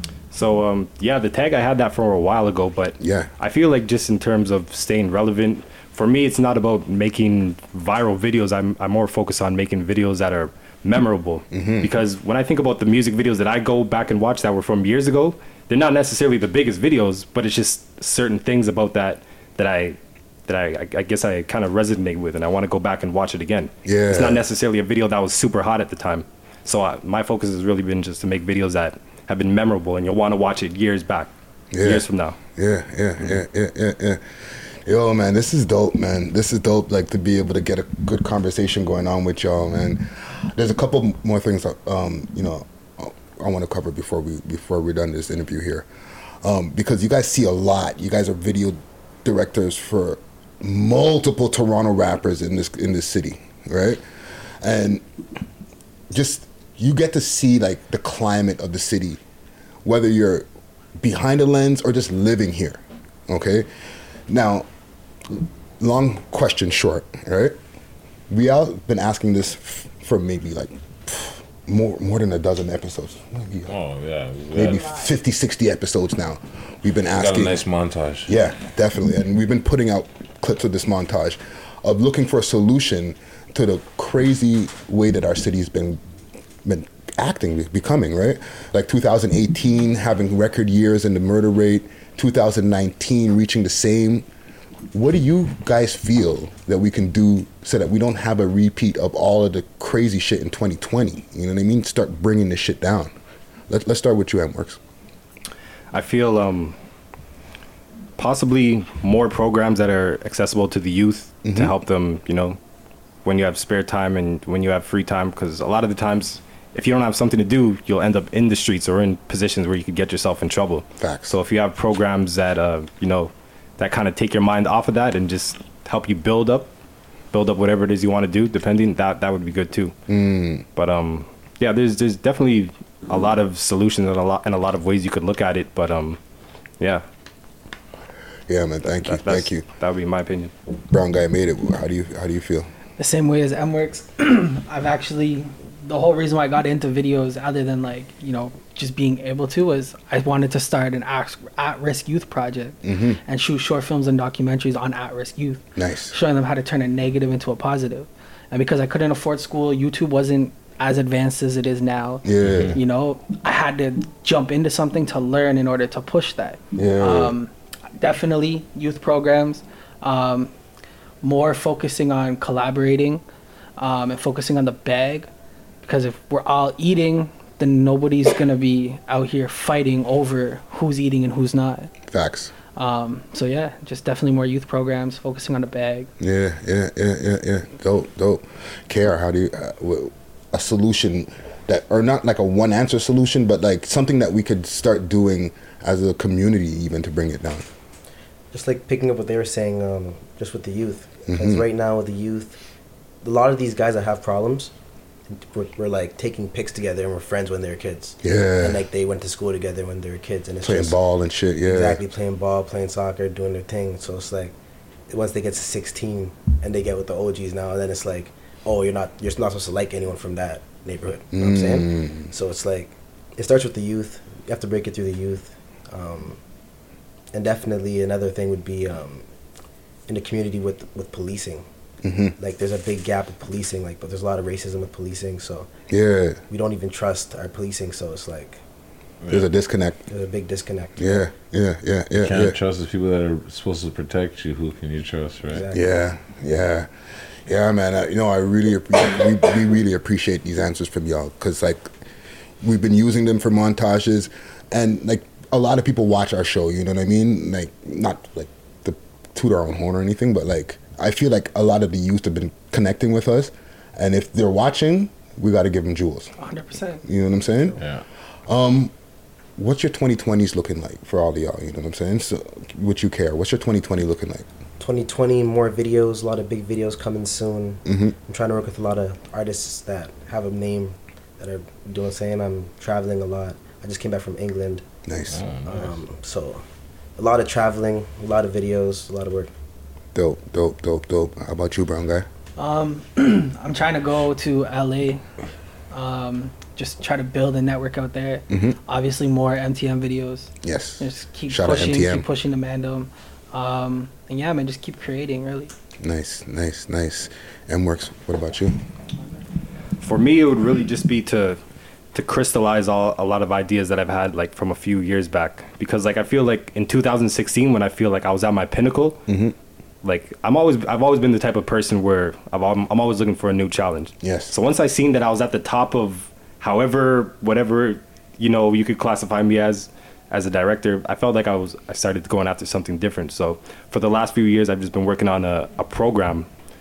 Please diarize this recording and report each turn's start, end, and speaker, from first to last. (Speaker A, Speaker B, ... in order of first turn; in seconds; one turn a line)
Speaker A: 0.3-32.4
Speaker B: 3.0-3.3
Speaker B: 11.5-11.9
Speaker B: 23.9-24.4
Speaker B: 31.7-34.2
Speaker B: 34.9-45.9
Speaker B: 46.4-54.0
Speaker B: 54.6-55.0
Speaker B: 56.1-59.2
Speaker B: 59.8-60.5
Speaker B: 61.0-63.7
Speaker B: 64.3-64.7
Speaker B: 65.8-67.6
Speaker B: 68.3-73.7
Speaker C: 73.7-74.9
Speaker B: 74.5-77.6
Speaker C: 77.1-78.3
Speaker B: 78.3-86.0
Speaker B: 86.7-94.3
Speaker B: 94.9-103.1
Speaker B: 103.7-104.8
Speaker A: 105.9-106.8
Speaker A: 108.2-112.6
Speaker B: 111.4-111.7
Speaker A: 113.2-126.7
Speaker B: 121.0-121.3
Speaker A: 127.3-129.9
Speaker B: 130.1-130.7
Speaker A: 130.8-136.2
Speaker B: 138.5-139.7
Speaker A: 138.8-140.5
Speaker B: 140.9-142.7
Speaker D: 143.0-170.5
Speaker B: 152.8-153.2
Speaker B: 155.8-156.2
Speaker B: 162.2-162.8
Speaker C: 162.4-162.8
Speaker B: 166.7-167.3
Speaker D: 171.2-173.2
Speaker D: 173.8-175.3
Speaker D: 175.8-181.9
Speaker B: 182.1-182.5
Speaker D: 182.7-186.1
Speaker B: 186.2-197.7
Speaker E: 198.5-202.6
Speaker B: 201.3-201.7
Speaker E: 203.2-204.7
Speaker E: 205.3-210.9
Speaker B: 208.2-208.8
Speaker B: 210.6-212.0
Speaker E: 211.6-214.6
Speaker E: 215.1-226.4
Speaker B: 221.3-222.3
Speaker E: 227.3-229.3
Speaker E: 230.1-231.6
Speaker B: 232.0-232.3
Speaker E: 232.4-235.7
Speaker B: 235.9-236.4
Speaker E: 236.5-238.6
Speaker B: 239.3-240.1
Speaker E: 240.1-241.2
Speaker B: 241.0-242.6
Speaker C: 242.2-245.7
Speaker E: 245.5-245.8
Speaker B: 245.7-246.9
Speaker B: 247.4-251.9
Speaker B: 252.6-266.3
Speaker D: 266.4-267.0
Speaker B: 267.1-267.8
Speaker B: 268.5-268.9
Speaker B: 269.6-274.4
Speaker E: 274.8-284.8
Speaker B: 277.9-278.1
Speaker B: 285.1-285.4
Speaker C: 285.3-285.9
Speaker E: 285.7-286.6
Speaker E: 287.2-289.5
Speaker B: 290.1-292.3
Speaker D: 292.6-295.2
Speaker D: 295.9-305.7
Speaker B: 298.5-298.8
Speaker B: 300.6-302.3
Speaker B: 306.0-308.8
Speaker A: 310.0-311.6
Speaker A: 312.1-319.2
Speaker B: 319.3-319.6
Speaker A: 320.0-336.5
Speaker B: 324.2-324.6